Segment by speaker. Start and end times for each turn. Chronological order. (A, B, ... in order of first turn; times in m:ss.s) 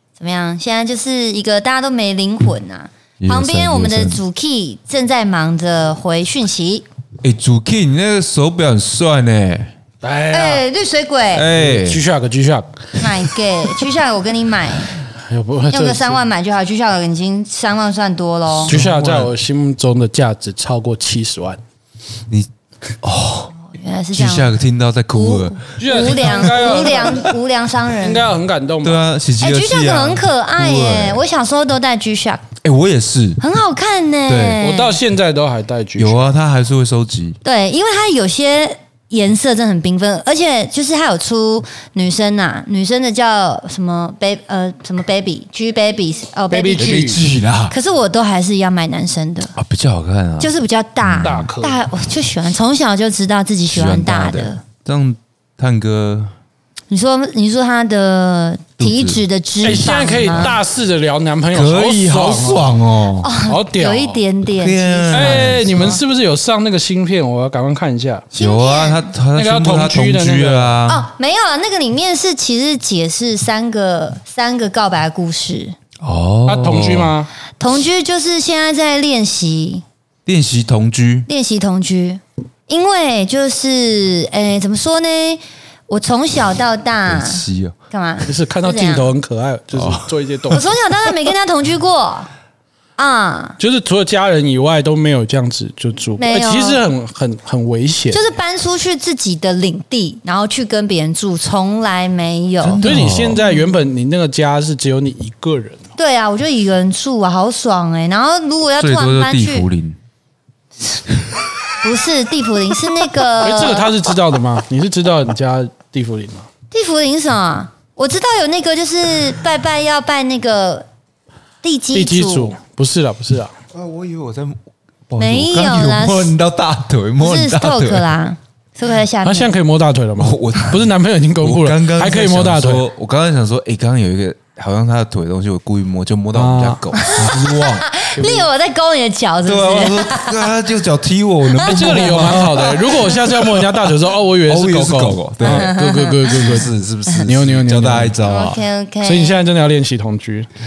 0:00.2-0:06.8 A
0:03.2-0:04.2 B
0:07.2-0:09.7 B
0:10.0-0:10.6 C
0:10.3-0:11.5 A
0:11.3-0:12.0 B
0:11.5-0:13.3 C
0:13.0-0:15.0 A
0:15.1-0:16.2 C
0:15.7-0:18.8 A
0:18.6-0:19.3 B
0:18.6-0:21.6 C
0:23.0-0:23.5 B
0:23.6-0:24.5 A
0:24.1-0:27.0 B
0:25.1-0:28.3 A
0:25.8-0:27.3 C
0:28.0-0:29.0 C
0:28.8-0:31.2 B
0:29.4-0:32.5 A
0:32.6-0:33.4 B
0:33.4-0:35.0 A
0:34.3-0:34.6 B
0:34.6-0:36.3 C
0:36.0-0:37.4 B
0:37.4-0:49.6 A
0:46.5-0:47.2 C
0:46.8-0:47.8 B
0:49.6-0:50.5 B
0:50.4-0:54.6 A
0:51.0-0:51.5 B
0:51.2-0:51.9 C
0:53.7-0:56.3 B
0:56.9-1:00.6 A
0:58.8-0:59.2 B
0:59.6-1:02.8 C
1:00.2-1:00.6 B
1:01.5-1:03.3 B
1:03.2-1:06.0 A
1:03.4-1:04.2 C
1:04.5-1:06.0 B
1:05.1-1:08.3 C
1:08.3-1:09.1 A
1:08.4-1:11.0 B
1:09.4-1:10.8 C
1:10.9-1:15.8 A
1:16.0-1:17.1 B
1:16.5-1:17.3 C
1:17.6-1:19.8 A
1:20.3-1:21.3 B
1:21.3-1:29.1 A
1:27.1-1:27.8 B
1:28.2-1:30.6 C
1:29.7-1:30.1 B
1:30.5-1:32.3 A
1:33.0-1:33.6 A
1:33.6-1:38.2 C
1:36.2-1:36.8 A
1:38.1-1:42.8 A
1:42.6-1:43.4 B
1:42.8-1:45.8 C
1:46.0-1:49.7 A
1:48.8-1:50.0 B
1:51.8-1:53.9 A
1:53.4-1:56.5 C
1:56.7-2:00.9 A
2:01.6-2:02.6 A
2:01.9-2:03.5 C
2:03.7-2:08.1 B
2:05.2-2:06.4 A
2:07.2-2:09.5 A
2:09.2-2:12.8 C
2:10.2-2:10.9 B
2:11.4-2:17.7 B
2:16.3-2:18.5 C
2:17.0-2:20.5 A
2:19.4-2:23.9 B
2:21.5-2:22.3 A
2:21.6-2:26.7 C
2:24.4-2:28.6 B
2:25.4-2:26.4 A
2:27.2-2:28.2 C
2:28.2-2:29.4 A
2:29.0-2:30.5 C